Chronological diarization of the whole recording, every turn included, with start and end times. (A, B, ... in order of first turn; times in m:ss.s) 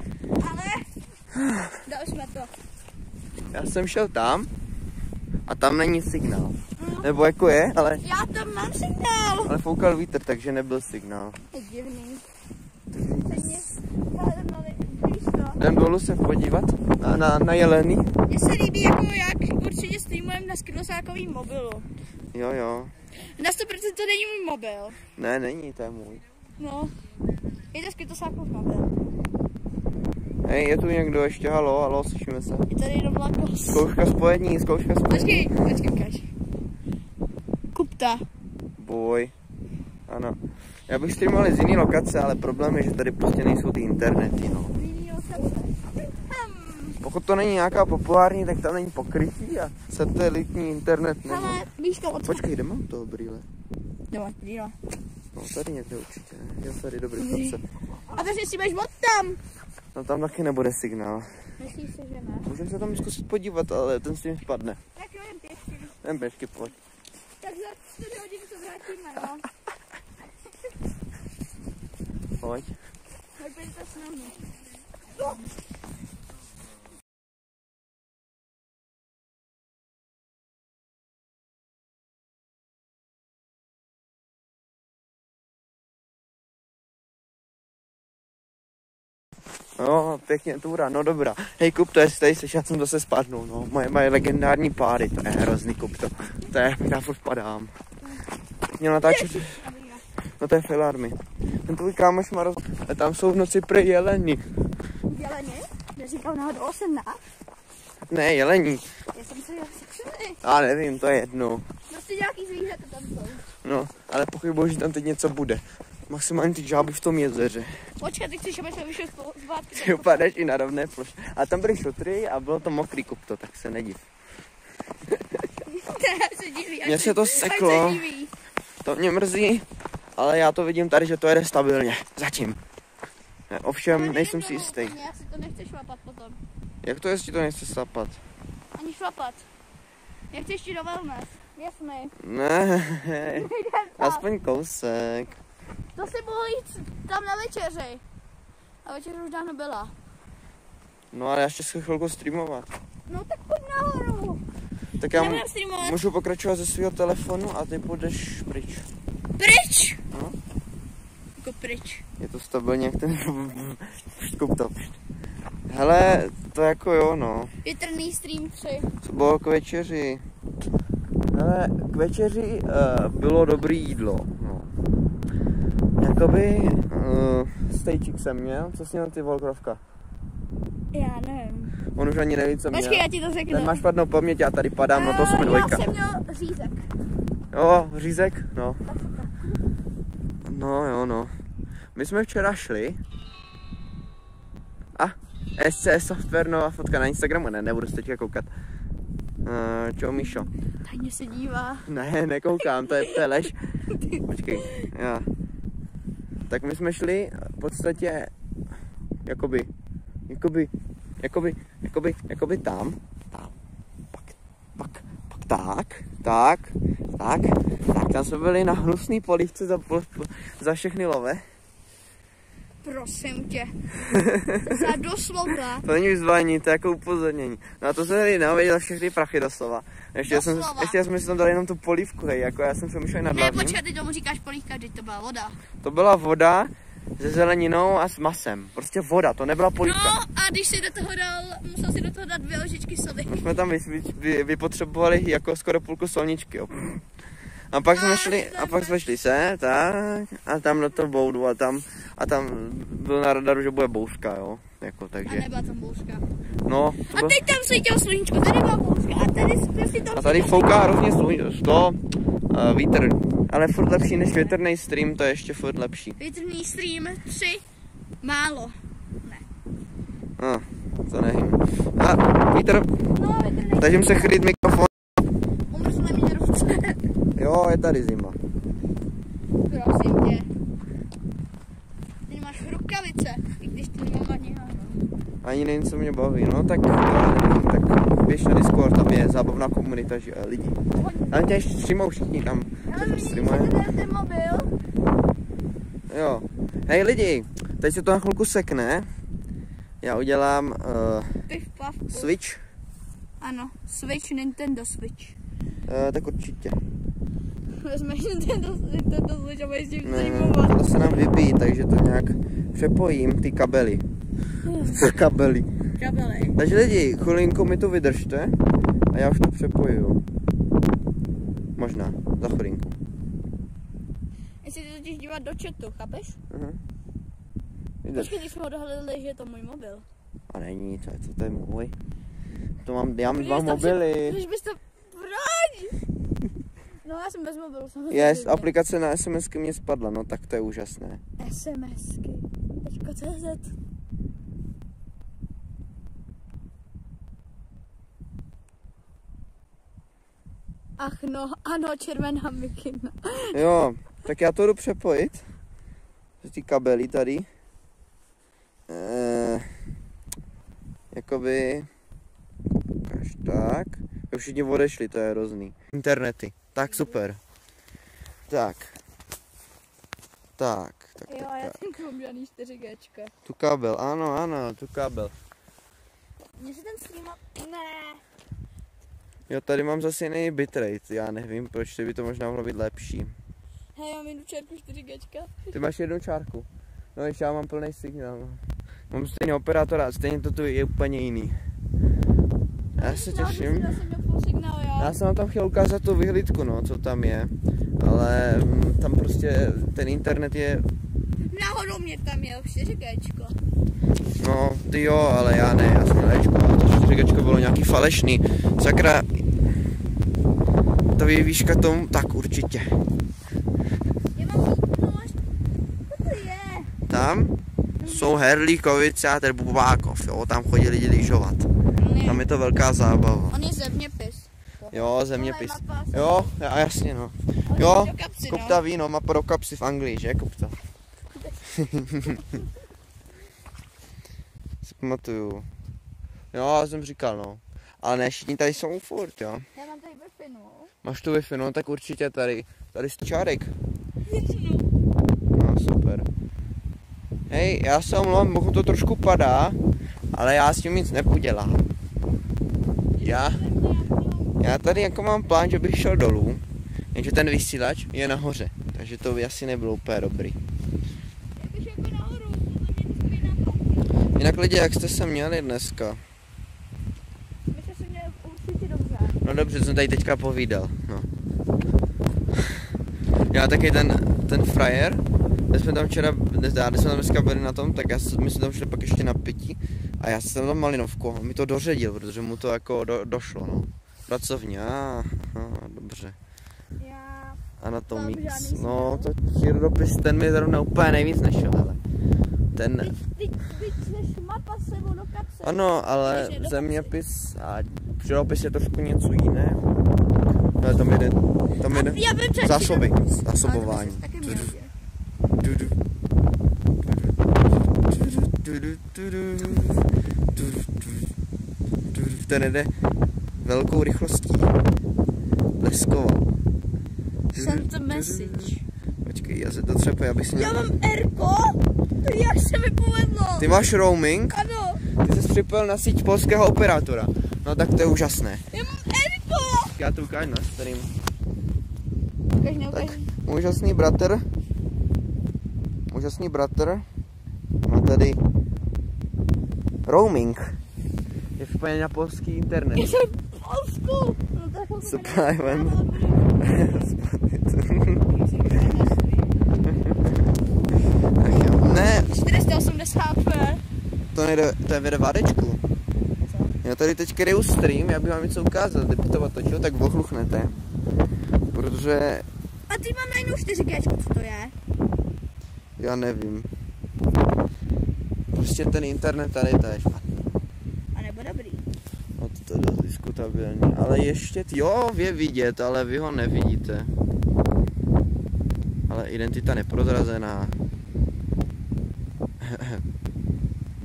0:00.4-0:00.9 A
0:01.3-0:01.8 B
0:01.8-0:02.5 A
0:03.5-0:04.5 B
0:05.5-0:08.0 B
0:06.8-0:07.1 A
0:08.0-0:09.5 A
0:09.5-0:11.4 B
0:11.5-0:12.2 A
0:12.9-0:13.6 B
0:13.2-0:15.6 A
0:15.6-0:18.1 B
0:18.3-0:21.9 A
0:22.3-0:22.9 B
0:23.2-0:25.0 A
0:25.2-0:26.2 B
0:26.6-0:26.9 A
0:27.7-0:29.0 A
0:30.4-0:32.7 B
0:32.7-0:33.8 A
0:33.7-0:35.6 B
0:35.1-0:36.3 A
0:37.7-0:38.2 A
0:38.8-0:39.3 B
0:40.1-0:44.8 B
0:44.8-0:47.0 A
0:47.0-0:51.7 B
0:51.2-0:52.4 A
0:52.2-0:53.5 B
0:54.1-0:54.8 A
0:55.3-0:57.6 B
0:57.2-0:57.6 A
0:58.1-0:59.4 A
0:59.9-1:01.3 B
1:01.6-1:02.5 A
1:02.5-1:04.8 B
1:04.9-1:06.0 A
1:06.0-1:06.8 B
1:07.4-1:09.5 A
1:12.4-1:12.7 B
1:13.4-1:14.5 A
1:15.2-1:15.4 A
1:29.8-1:37.7 B
1:38.8-1:39.6 B
1:39.0-1:40.0 A
1:40.4-1:44.4 B
1:45.1-1:47.2 A
1:48.1-1:48.8 B
1:49.1-1:50.4 A
1:50.4-1:51.7 B
1:51.9-1:53.4 A
1:53.6-1:57.8 B
1:58.0-2:00.2 A
1:59.7-2:04.1 B
2:05.1-2:05.4 B
2:05.6-2:08.3 A
2:06.8-2:08.1 B
2:08.8-2:09.7 B
2:10.2-2:12.6 B
2:13.5-2:15.0 B
2:13.9-2:16.4 A
2:16.8-2:18.2 B
2:18.7-2:19.4 A
2:20.3-2:22.2 A
2:22.2-2:25.4 B
2:23.4-2:24.2 A
2:26.0-2:28.0 A
2:28.8-2:29.9 A
2:31.1-2:32.7 B
2:33.1-2:34.4 A
2:35.0-2:38.9 B
2:35.1-2:36.0 A
2:39.4-2:40.0 A
2:41.4-2:42.0 A
2:42.2-2:45.0 B
2:45.7-2:47.5 B
2:47.6-2:48.9 A
2:49.0-2:50.2 B
2:51.3-2:54.7 B
2:56.0-2:59.8 B
3:00.9-3:01.8 A
3:01.9-3:05.9 B
3:02.7-3:03.8 A
3:04.9-3:06.9 A
3:07.5-3:08.8 B
3:08.9-3:09.6 A
3:10.4-3:11.3 B
3:11.9-3:13.0 B
3:15.0-3:18.5 B
3:19.4-3:20.5 B
3:20.8-3:21.9 A
3:21.9-3:23.6 B
3:22.6-3:23.2 A
3:23.9-3:24.9 A
3:24.2-3:25.3 B
3:26.5-3:28.3 B
3:29.2-3:29.7 B
3:30.3-3:33.6 B
3:34.1-3:41.4 B
3:42.8-3:43.8 A
3:44.0-3:44.8 B
3:44.6-3:45.8 A
3:45.8-3:53.8 B
3:50.2-3:51.0 A
3:53.3-3:55.6 A
3:55.8-4:00.2 B
3:59.8-4:03.5 A
4:03.2-4:07.0 B
4:07.7-4:15.5 B
4:07.9-4:09.1 A
4:15.2-4:16.2 A
4:16.7-4:17.4 B
4:17.0-4:21.0 A
4:20.1-4:26.2 B
4:24.2-4:24.5 A
4:26.2-4:27.6 A
4:28.2-4:29.4 A
4:30.4-4:32.9 B
4:33.1-4:34.4 A
4:33.8-4:34.9 B
4:35.7-4:37.0 A
4:37.4-4:38.4 B
4:39.6-4:40.5 A
4:42.3-4:45.0 A
4:45.4-4:50.8 B
4:50.9-4:51.4 A
4:51.3-4:53.8 B
4:52.9-4:54.7 A
4:56.1-4:59.1 B
5:00.0-5:01.4 B
5:01.5-5:02.3 A
5:02.1-5:02.6 B
5:03.4-5:05.4 A
5:05.9-5:06.8 B
5:07.8-5:11.2 A
5:10.0-5:14.0 B
5:14.6-5:15.0 A
5:14.8-5:15.7 B
5:16.0-5:16.6 A
5:16.6-5:18.6 B
5:19.1-5:20.2 B
5:21.8-5:23.0 B
5:24.6-5:26.4 A
5:26.5-5:26.8 B
5:28.0-5:28.4 B
5:28.1-5:30.1 A
5:30.5-5:31.9 B
5:32.8-5:34.4 B
5:33.3-5:36.0 A
5:37.0-5:38.7 A
5:38.1-5:41.2 B
5:41.4-5:43.7 A
5:51.0-5:53.6 A
5:53.5-5:55.4 B
5:56.4-5:57.5 B
5:58.9-5:59.7 B
6:01.1-6:01.9 B
6:03.0-6:07.4 B
6:06.8-6:07.2 A
6:08.5-6:08.9 B
6:10.6-6:11.8 B
6:11.3-6:13.3 A
6:13.4-6:15.3 B
6:16.6-6:18.2 A
6:19.5-6:23.3 B
6:23.9-6:25.7 A
6:25.7-6:31.6 B
6:33.0-6:33.9 B
6:33.0-6:35.1 A
6:35.0-6:40.9 B
6:41.5-6:43.6 A
6:44.4-6:49.4 B
6:51.2-6:53.0 B
6:54.4-6:55.4 A
6:56.1-6:56.9 A
6:57.1-7:01.7 B
6:58.0-6:58.3 A
7:02.0-7:02.4 A
7:02.2-7:03.6 B
7:03.5-7:06.5 A
7:04.9-7:10.8 B
7:07.7-7:08.8 A
7:11.3-7:12.6 A
7:11.7-7:12.4 B
7:14.8-7:15.7 B
7:16.5-7:19.7 B
7:19.7-7:20.9 A
7:21.0-7:23.7 B
7:24.2-7:24.9 A
7:25.5-7:26.3 B
7:27.5-7:29.8 B
7:30.3-7:31.9 B
7:33.2-7:34.9 A
7:33.2-7:33.6 B
7:34.6-7:40.6 B
7:41.6-7:44.1 A
7:44.4-7:46.2 B
7:47.7-7:49.4 A
7:49.4-7:51.3 B
7:53.5-8:06.4 B
8:07.0-8:09.3 A
8:07.8-8:12.0 B
8:12.7-8:13.1 B
8:13.0-8:17.1 A
8:15.6-8:19.8 B
8:20.8-8:24.7 B
8:21.8-8:24.9 A
8:25.6-8:26.0 B
8:27.0-8:27.3 B
8:27.9-8:30.0 B
8:30.5-8:31.3 B
8:32.1-8:32.9 B
8:33.6-8:34.7 B
8:35.8-8:36.4 B
8:37.5-8:38.7 B
8:37.6-8:38.8 A
8:39.2-8:40.8 B
8:40.6-8:43.8 A
8:43.6-8:44.6 B
8:44.5-8:45.0 A
8:45.2-8:48.7 B
8:48.7-8:50.0 A
8:49.9-8:51.1 B
8:52.6-8:53.3 A
8:52.9-8:54.4 B
8:56.1-8:57.0 B
8:57.8-8:58.4 B
9:00.1-9:00.7 B
9:01.6-9:03.2 B
9:02.9-9:07.1 A
9:05.0-9:06.0 B
9:06.6-9:08.3 B
9:08.3-9:09.5 A
9:09.9-9:10.2 B
9:11.4-9:12.3 B
9:12.1-9:13.8 A
9:14.3-9:15.8 B
9:16.5-9:16.7 A
9:16.8-9:20.8 B
9:21.7-9:22.4 B
9:22.9-9:24.7 A
9:26.0-9:26.7 B
9:28.5-9:30.3 B
9:31.1-9:31.9 A
9:32.4-9:37.1 B
9:39.1-9:40.8 B
9:42.6-9:43.0 B